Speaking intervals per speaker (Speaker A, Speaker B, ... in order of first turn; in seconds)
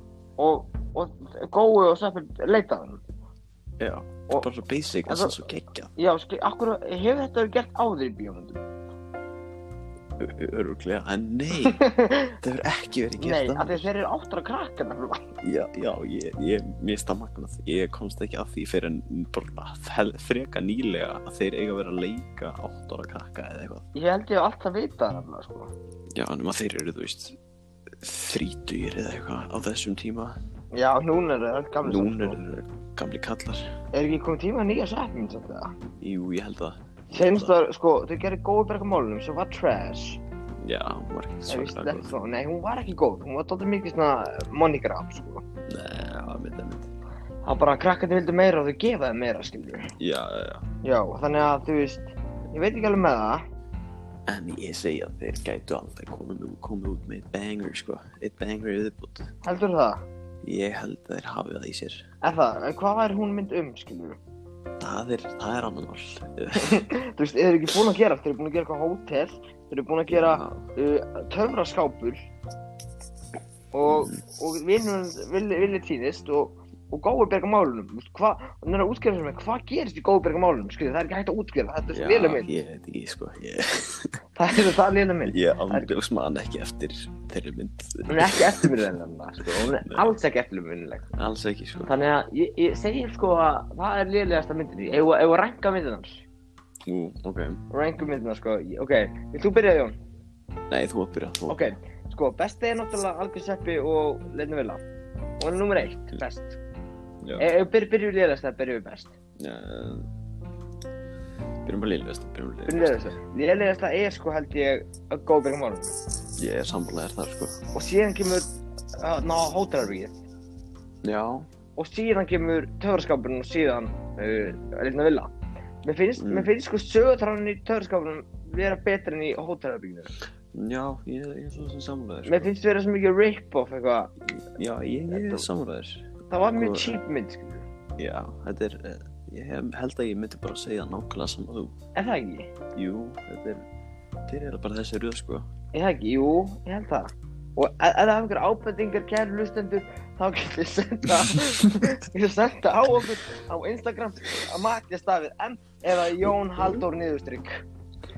Speaker A: 0.4-3.0, 5.1-5.4, 6.0-8.6, 11.6-12.3, 13.2-15.2, 23.9-25.7, 30.7-32.4, 33.9-35.7, 37.1-40.2, 41.5-45.4, 47.5-49.9, 50.8-53.4, 59.4-60.0, 62.2-64.2, 66.6-72.3, 73.7-82.6, 84.4-85.9, 88.1-91.1, 91.9-96.2, 97.7-100.0, 101.5-104.8, 105.4-106.6, 107.4-109.1, 112.7-115.9, 117.7-118.5, 119.0-120.2, 121.8-125.3, 125.8-130.1, 132.3-134.1, 135.1-135.4, 136.3-137.7, 141.9-142.5, 145.7-157.6
Speaker B: 3.8-5.9, 10.2-11.8, 12.4-13.9, 15.4-23.8, 26.2-27.4, 28.0-30.4, 31.8-33.7, 36.0-37.5, 40.6-42.1, 45.7-46.9, 50.0-50.6, 54.3-59.3, 60.4-62.0, 64.8-66.8, 70.1-70.7, 73.9-74.2, 81.9-84.2, 85.3-88.8, 89.4-90.1, 91.2-91.9, 96.8-97.6, 100.7-101.8, 109.4-110.1, 111.7-113.1, 116.4-117.6, 121.0-121.5, 126.2-126.5, 130.5-132.5, 134.6-137.0, 138.0-141.7, 142.8-143.6, 144.3-145.5, 156.3-156.8